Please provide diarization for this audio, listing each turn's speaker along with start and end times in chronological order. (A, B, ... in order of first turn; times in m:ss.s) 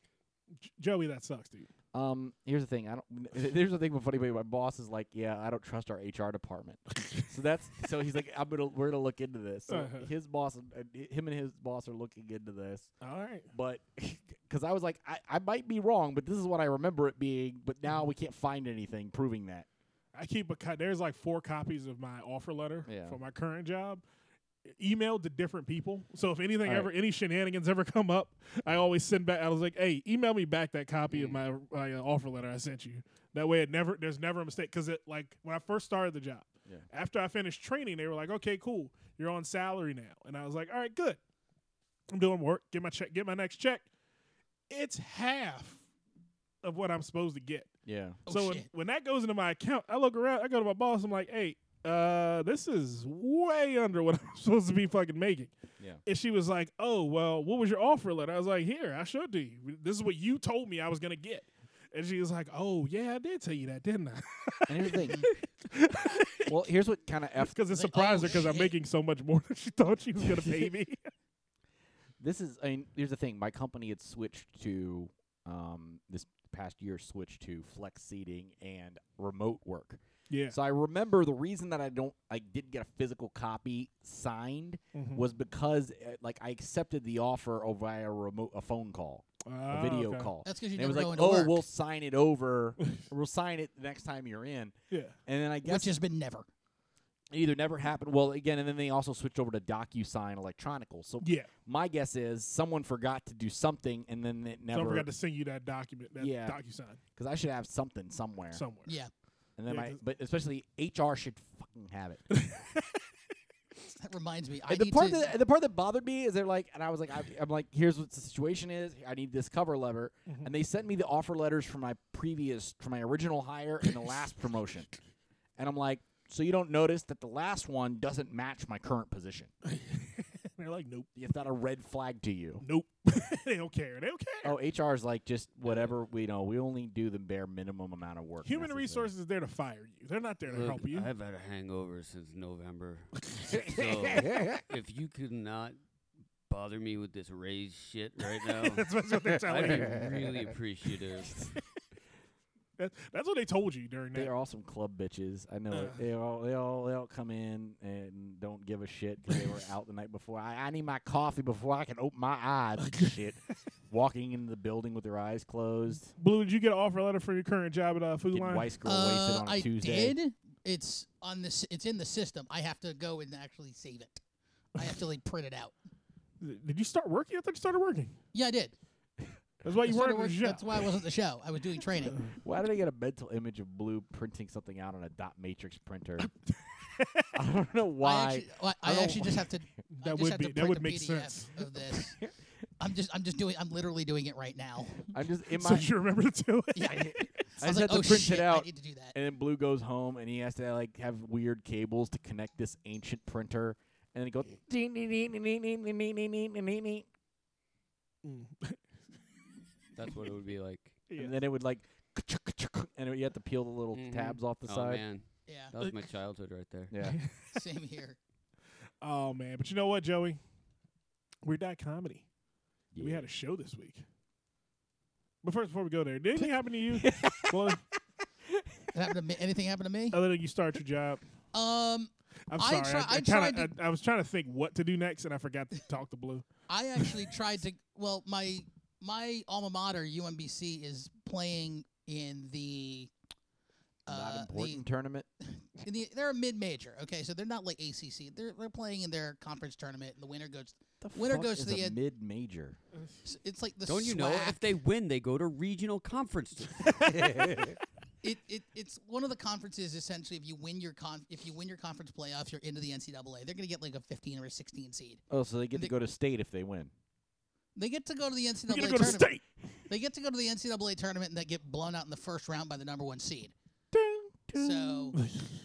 0:00.6-0:01.7 A
0:01.9-0:12.9 B
0:09.7-0:10.1 A
0:13.0-0:13.5 A
0:13.5-0:19.7 B
0:20.1-0:24.0 A
0:22.8-0:23.2 B
0:24.7-0:41.2 A
0:26.6-0:26.9 B
0:42.1-0:43.8 A
0:44.7-0:45.8 A
0:46.6-0:47.7 A
0:47.8-0:48.2 B
0:48.2-0:48.7 C
0:48.3-1:05.0 A
1:04.7-1:05.3 B
1:05.6-1:06.5 A
1:06.4-1:07.6 B
1:07.4-1:11.1 A
1:07.7-1:08.8 C
1:12.2-1:34.7 B
1:20.3-1:20.6 A
1:24.9-1:25.2 A
1:29.5-1:30.3 A
1:30.4-1:31.6 C
1:34.9-1:35.2 A
1:35.2-1:35.9 B
1:35.6-1:36.5 C
1:37.3-1:45.1 B
1:41.2-1:41.5 A
1:44.7-1:47.0 A
1:46.2-1:46.6 B
1:47.2-1:48.6 B
1:48.5-1:48.9 A
1:49.6-1:52.2 B
1:49.7-1:50.0 A
1:52.3-1:53.0 A
1:54.0-1:55.3 C
1:54.7-2:04.9 B
2:05.6-2:09.5 B
2:09.7-2:11.1 A
2:11.2-2:12.6 B
2:12.6-2:14.6 A
2:14.4-2:19.1 B
2:18.4-2:21.1 A
2:20.5-2:25.8 D
2:23.5-2:24.6 B
2:26.5-2:28.9 D
2:28.6-2:30.1 A
2:29.4-2:31.5 D
2:29.5-2:30.3 B
2:32.8-2:34.3 A
2:34.1-2:46.1 B
2:35.7-2:36.0 A
2:42.8-2:43.1 A
2:46.1-2:48.7 A
2:48.3-2:50.2 B
2:48.8-2:54.2 C
2:54.8-2:55.7 C
2:56.4-2:58.2 A
2:58.3-2:58.7 C
2:59.6-3:00.9 A
2:59.8-3:02.2 C
3:02.2-3:06.3 B
3:06.2-3:07.3 A
3:07.3-3:09.5 B
3:08.0-3:12.2 C
3:09.9-3:11.6 A
3:12.8-3:15.1 C
3:15.1-3:15.9 B
3:15.5-3:17.3 A
3:16.7-3:19.2 C
3:16.9-3:27.0 B
3:28.2-3:28.8 A
3:29.9-3:31.0 D
3:31.1-3:31.4 A
3:31.1-3:35.0 B
3:33.9-3:36.9 D
3:35.5-3:35.7 C
3:35.8-3:36.1 A
3:36.9-3:37.2 B
3:37.0-3:37.6 A
3:37.5-3:38.2 C
3:39.0-3:40.4 A
3:41.4-3:42.2 A
3:42.9-3:43.2 B
3:43.0-3:44.0 A
3:45.4-3:47.8 A
3:46.4-3:47.8 B
3:48.9-3:50.2 C
3:50.1-3:51.2 A
3:51.5-3:53.7 C
3:52.5-3:56.5 A
3:56.7-4:03.1 C
4:04.1-4:04.8 C
4:04.1-4:05.3 B
4:05.4-4:12.0 C
4:11.0-4:12.8 B
4:13.2-4:14.7 C
4:13.9-4:17.1 D
4:16.8-4:17.8 B
4:18.2-4:25.2 C
4:25.3-4:26.9 B
4:27.7-4:29.3 C
4:28.7-4:29.4 A
4:29.9-4:33.5 C
4:33.9-4:35.2 B
4:34.6-4:35.2 C
4:35.2-4:35.5 A